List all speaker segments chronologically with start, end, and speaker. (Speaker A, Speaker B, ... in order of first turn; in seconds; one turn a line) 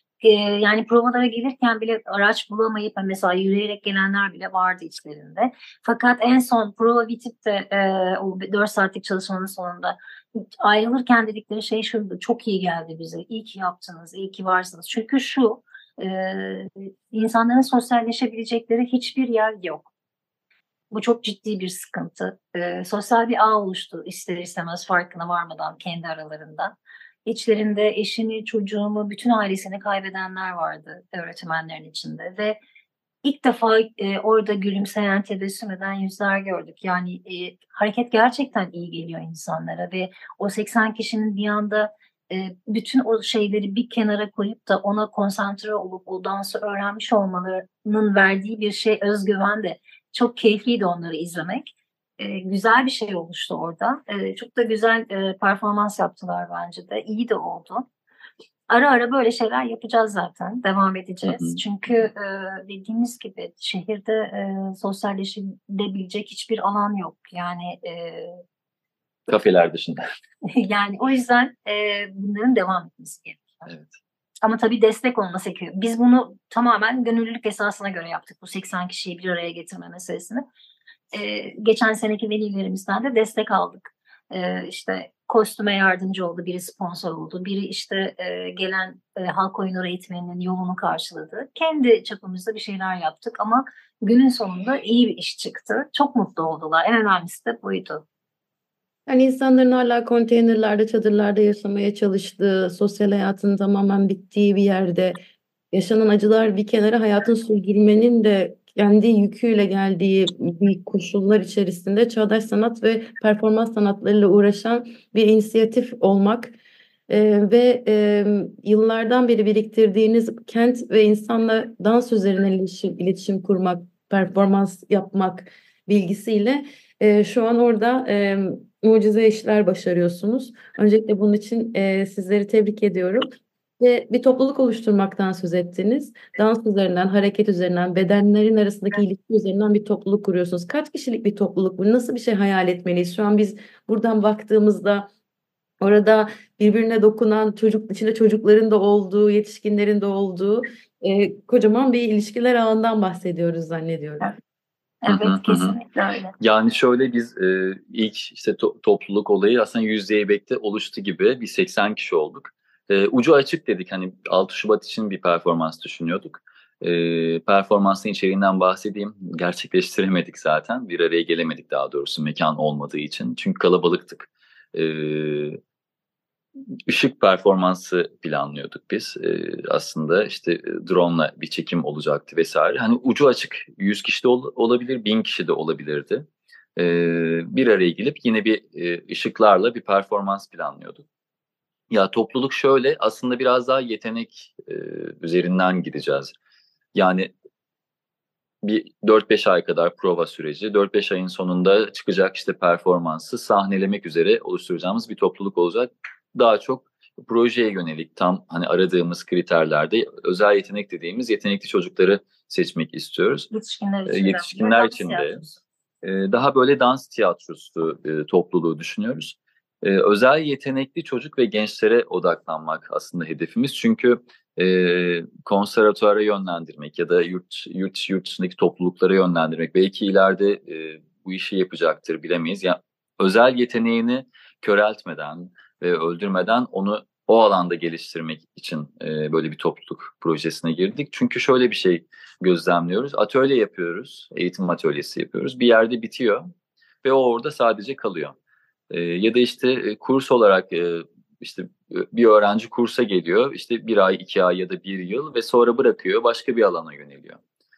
Speaker A: 0.2-19.9
Speaker A: 20.9-26.7
Speaker A: 27.2-32.6
Speaker A: 33.2-57.8
Speaker A: 58.7-68.4
Speaker B: 61.2-61.6
Speaker B: 69.3-70.0
Speaker A: 70.5-73.7
Speaker B: 73.7-73.9
Speaker A: 74.4-80.4
Speaker A: 81.1-98.0
Speaker C: 99.1-105.2
Speaker C: 105.7-116.5
Speaker C: 117.1-145.1
Speaker C: 145.8-154.3
Speaker A: 155.0-156.3
Speaker B: 155.1-155.8
Speaker B: 156.4-175.6
Speaker B: 176.9-191.0
Speaker B: 191.9-196.3
Speaker B: 196.9-197.3
Speaker B: 198.6-213.5
Speaker A: 213.5-215.6
Speaker B: 214.1-215.4
Speaker B: 216.0-246.5
Speaker B: 247.0-248.3
Speaker B: 248.9-257.4